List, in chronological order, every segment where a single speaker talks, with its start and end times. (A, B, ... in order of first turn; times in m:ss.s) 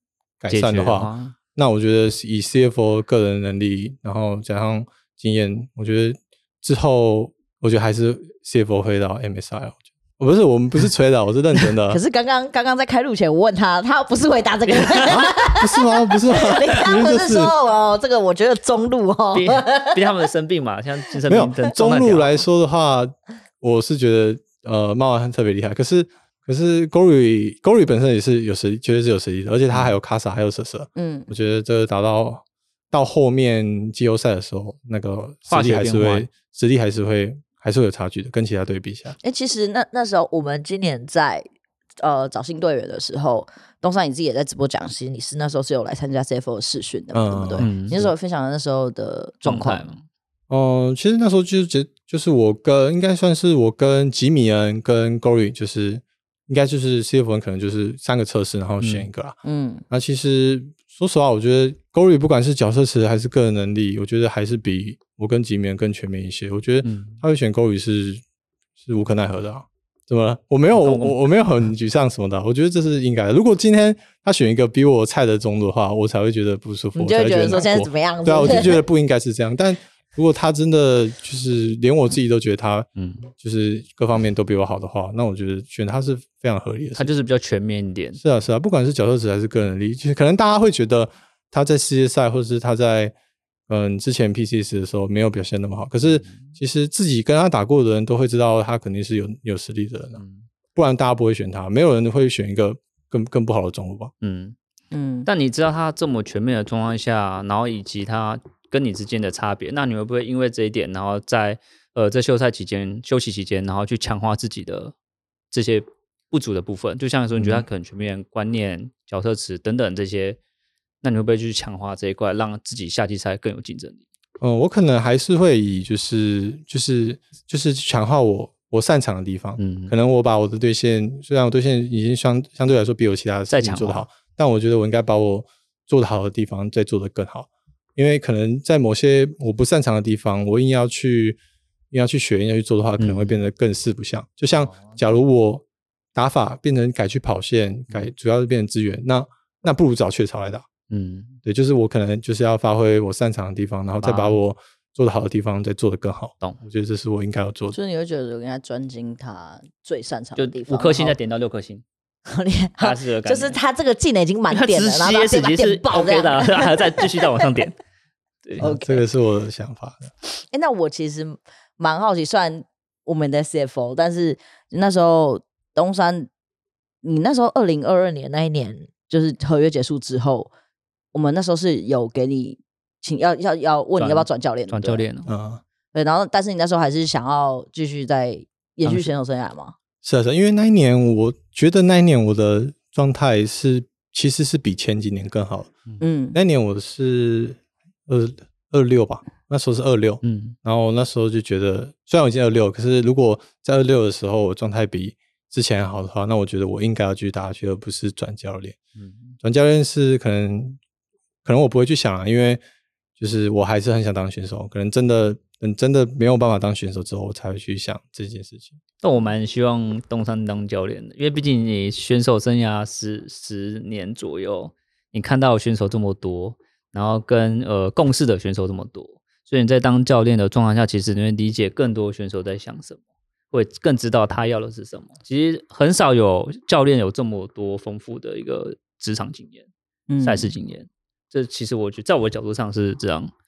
0:00.4-0:12.0 A
0:00.5-0:01.3 B
0:11.9-0:20.2 C
0:15.0-0:17.5 A
0:19.3-0:22.4 B
0:21.3-0:39.2 A
0:31.0-0:31.3 C
0:35.5-0:36.3 B
0:39.2-0:41.5 C
0:42.0-0:49.8 C
0:47.1-0:48.1 A
0:47.6-0:48.0 B
0:49.4-0:50.0 B
0:50.5-0:59.4 A
0:58.8-0:59.1 B
0:59.4-0:59.8 C
0:59.9-1:08.2 A
1:06.8-1:07.2 B
1:08.8-1:27.1 A
1:10.7-1:11.2 B
1:16.9-1:18.8 C
1:23.0-1:23.3 B
1:27.0-1:28.2 B
1:28.2-1:33.1 A
1:33.7-1:40.2 A
1:36.2-1:36.5 B
1:40.2-1:40.4 B
1:40.7-1:44.1 A
1:44.2-1:44.6 B
1:44.9-1:45.3 C
1:45.2-1:54.9 B
1:55.5-2:00.4 B
1:57.3-1:57.7 A
2:01.0-2:04.0 B
2:04.4-2:21.4 A
2:09.6-2:09.9 B
2:13.5-2:14.0 B
2:21.9-2:25.6 A
2:23.0-2:23.4 B
2:24.7-2:25.0 B
2:26.1-2:30.7 A
2:30.9-2:31.4 B
2:31.4-2:37.8 A
2:34.0-2:34.4 B
2:37.7-2:41.2 C
2:40.4-2:41.8 B
2:42.3-2:47.6 C
2:42.8-2:43.6 B
2:44.5-2:47.8 B
2:48.6-2:49.0 C
2:48.6-2:50.1 A
2:50.3-2:56.3 C
2:57.0-3:00.5 C
3:01.1-3:05.0 C
3:04.0-3:05.3 B
3:05.2-3:05.6 A
3:05.9-3:09.7 C
3:10.0-3:15.7 A
3:16.0-3:16.4 C
3:16.3-3:28.8 A
3:20.2-3:20.6 B
3:29.0-3:29.4 B
3:29.4-3:30.8 A
3:31.4-3:32.6 A
3:33.2-3:38.8 A
3:39.0-3:53.0 B
3:53.5-3:59.7 B
4:00.1-4:00.5 C
4:00.2-4:03.3 B